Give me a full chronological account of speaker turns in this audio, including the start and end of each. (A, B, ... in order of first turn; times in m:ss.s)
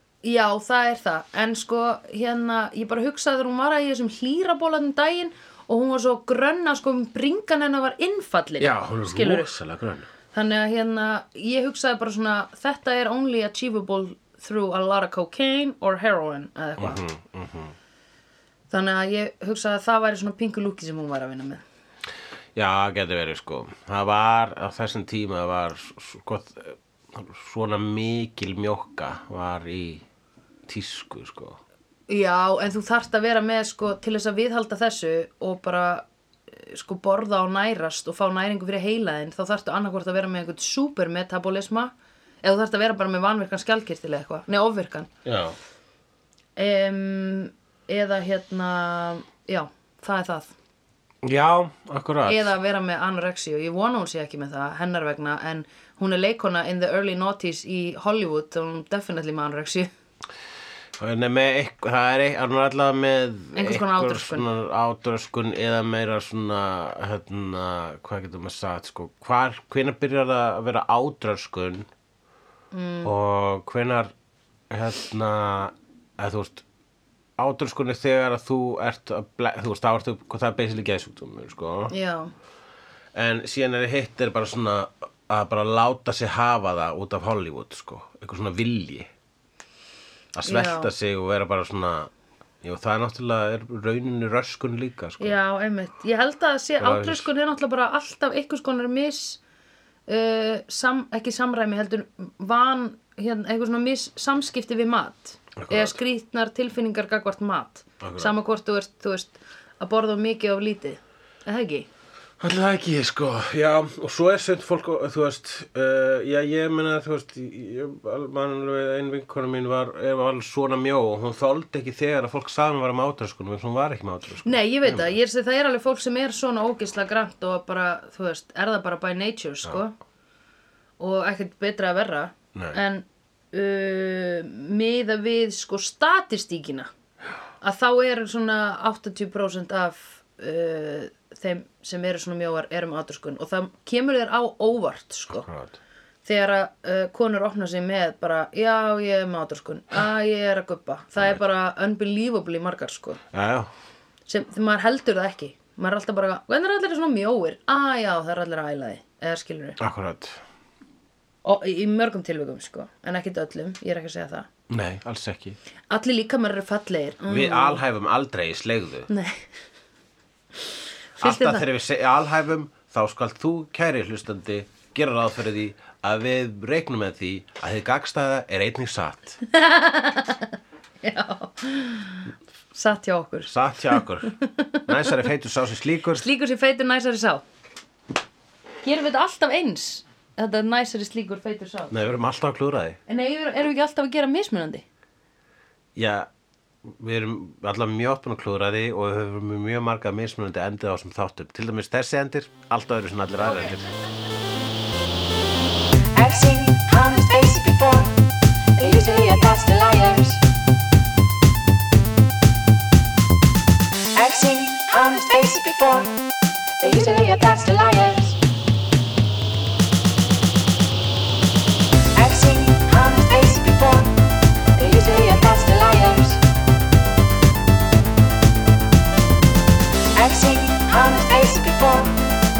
0:00.2-0:09.5 A
0:08.6-0:10.1 B
0:10.3-0:17.0 A
0:16.8-0:17.8 B
0:18.7-0:21.6 A
0:22.6-0:30.0 B
0:30.7-0:31.6 B
0:32.1-0:41.9 A
0:42.4-0:45.1 A
0:45.2-0:45.6 B
0:46.6-0:50.5 A
0:51.2-0:52.5 B
0:52.2-0:59.9 A
1:01.0-1:11.9 B
1:03.6-1:04.5 A
1:12.7-1:13.1 A
1:13.0-1:14.1 B
1:14.7-1:16.6 B
1:17.4-1:21.9 B
1:21.9-1:22.3 A
1:23.2-1:29.1 B
1:30.4-1:32.1 B
1:30.4-1:30.9 A
1:32.6-1:35.4 B
1:35.2-1:39.4 A
1:36.8-1:37.3 B
1:40.1-1:51.9 A
1:45.6-1:46.0 B
1:48.0-1:48.4 B
1:52.4-2:05.2 B
2:04.4-2:10.0 A
2:11.0-2:16.9 A
2:17.6-2:25.5 A
2:25.3-2:25.8 B
2:26.2-2:33.2 A
2:33.3-2:33.7 B
2:34.3-2:39.8 A
2:39.8-2:40.4 B
2:41.4-2:44.5 A
2:44.7-2:45.6 B
2:45.9-2:47.8 A
2:47.3-2:49.1 B
2:49.1-2:49.5 A
2:51.2-2:51.6 A
2:51.2-2:59.4 B
2:59.5-3:05.1 A
3:03.5-3:04.3 B
3:04.9-3:06.3 B
3:06.1-3:07.4 A
3:08.8-3:12.2 A
3:11.9-3:13.0 B
3:13.1-3:14.9 A
3:16.0-3:16.3 B
3:16.8-3:23.9 B
3:26.2-3:28.2 C
3:28.8-3:30.4 C
3:34.2-3:36.2 C
3:36.8-3:38.4 C
3:42.2-3:44.2 C
3:44.8-3:46.4 C
3:50.2-3:52.2 C